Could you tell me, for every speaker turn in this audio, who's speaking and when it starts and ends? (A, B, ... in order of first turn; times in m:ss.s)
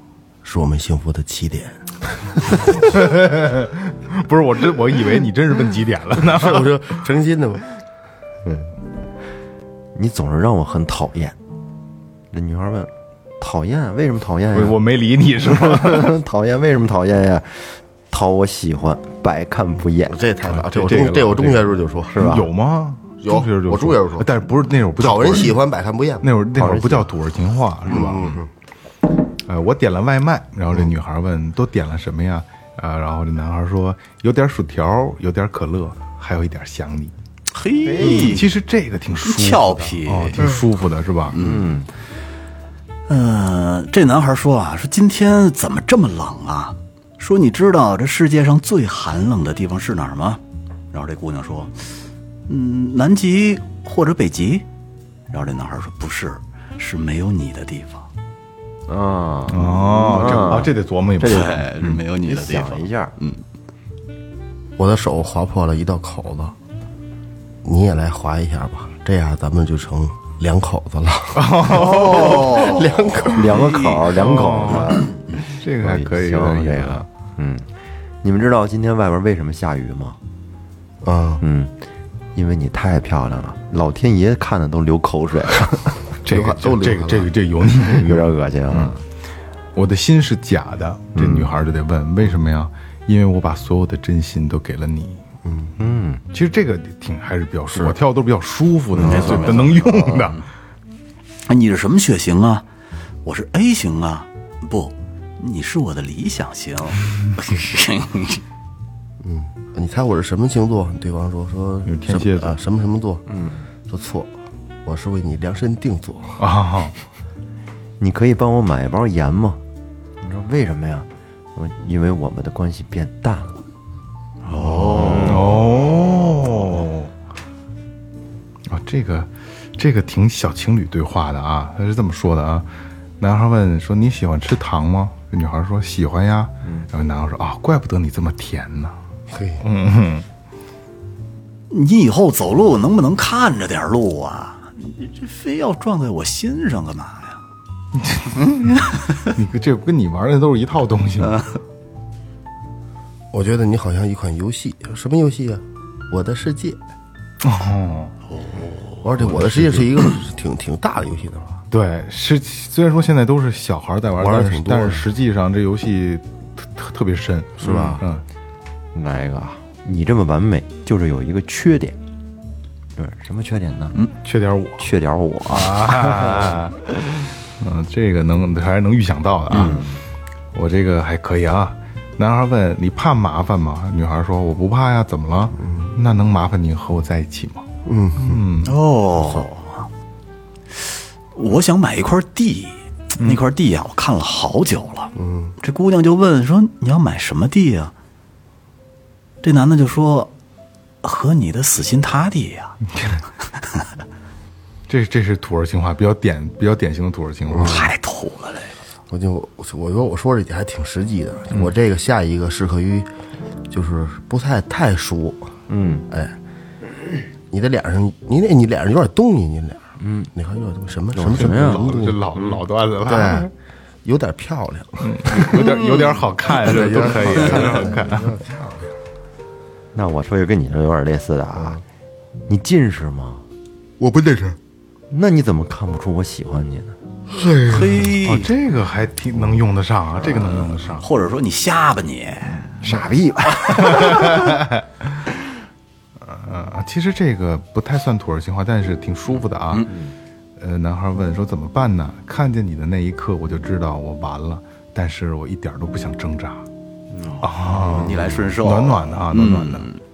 0:00.4-0:02.7 A
0:02.9-0:07.0 B
0:06.2-0:07.6 A
0:09.9-0:11.4 C
0:12.3-0:14.8 C
0:14.5-0:16.1 B
0:15.4-0:20.2 C
0:20.0-0:22.3 A
0:20.4-0:25.6 B
0:22.1-0:22.4 C
0:23.2-0:24.2 A
0:25.0-0:26.2 A
0:26.2-0:28.4 B
0:26.6-0:27.1 C
0:27.9-0:28.5 A
0:29.4-0:37.1 B
0:37.5-0:38.5 D
0:37.8-0:38.4 C
0:38.0-0:41.4 B
0:39.2-0:40.4 D
0:41.3-0:41.7 D
0:41.3-0:41.9 C
0:43.1-0:50.4 D
0:50.9-0:54.6 D
0:55.3-0:58.1 D
0:58.9-1:01.6 C
0:59.5-1:02.0 B
1:01.2-1:03.4 D
1:02.3-1:03.1 C
1:04.8-1:06.5 A
1:07.6-1:13.6 A
1:11.3-1:12.6 B
1:11.7-1:14.1 D
1:13.2-1:15.1 C
1:14.1-1:17.1 B
1:15.8-1:17.7 C
1:18.2-1:20.2 C
1:21.0-1:21.4 A
1:21.4-1:21.7 C
1:22.3-1:25.9 C
1:26.2-1:28.9 B
1:26.3-1:27.3 A
1:27.9-1:29.0 C
1:29.7-1:35.2 B
1:31.1-1:31.5 C
1:35.4-1:35.7 A
1:35.8-1:36.2 C
1:36.3-1:40.4 B
1:39.0-1:40.3 D
1:39.0-1:39.8 A
1:41.4-1:42.6 D
1:43.2-1:48.4 D
1:49.2-1:53.2 A
1:51.8-1:52.6 B
1:53.3-1:53.6 C
1:53.9-1:54.3 A
1:54.8-1:56.4 A
1:56.4-1:56.9 B
1:58.0-1:59.6 C
2:00.2-2:03.5 C
2:04.4-2:05.6 D
2:04.5-2:07.1 B
2:04.9-2:05.6 C
2:08.7-2:12.7 B
2:13.2-2:19.0 B
2:19.3-2:19.6 A
2:19.6-2:20.2 B
2:21.7-2:27.4 D
2:28.0-2:31.4 B
2:33.3-2:36.8 A
2:37.4-2:38.1 B
2:38.3-2:39.0 D
2:39.0-2:41.6 A
2:39.2-2:39.9 B
2:41.7-2:48.2 B
2:44.2-2:45.0 A
2:47.6-2:48.0 A
2:48.9-2:52.0 C
2:53.0-2:54.0 C
2:54.2-2:54.8 B
2:54.8-2:56.5 C
2:55.5-2:56.8 B
2:57.6-2:59.8 B
2:59.5-3:00.0 C
3:00.5-3:07.6 B
3:05.6-3:05.9 A
3:07.8-3:08.4 A
3:08.2-3:08.7 B
3:08.6-3:09.9 D
3:10.7-3:17.9 D
3:15.2-3:15.5 A
3:19.4-3:20.3 D
3:21.0-3:22.8 D
3:24.9-3:27.9 B
3:27.5-3:27.9 A
3:27.6-3:28.7 D
3:29.1-3:33.1 A
3:33.7-3:35.5 A
3:35.7-3:36.0 C
3:36.1-3:36.3 A
3:37.5-3:42.2 A
3:40.0-3:40.3 C
3:41.1-3:42.0 C
3:41.3-3:43.5 B
3:43.0-3:43.5 A
3:44.0-3:48.8 A
3:45.0-3:48.4 B
3:49.9-3:51.8 C
3:51.6-3:51.8 A
3:52.5-3:53.4 C
3:54.0-3:54.6 A
3:55.1-3:57.0 C
3:57.3-3:57.9 A
3:57.6-3:58.5 D
3:58.2-4:01.1 B
4:00.3-4:02.6 D
4:02.6-4:03.0 B
4:02.8-4:04.6 C
4:03.6-4:04.8 B
4:06.2-4:09.8 B
4:10.6-4:16.6 B
4:17.1-4:18.5 C
4:17.4-4:19.9 B
4:17.8-4:20.0 D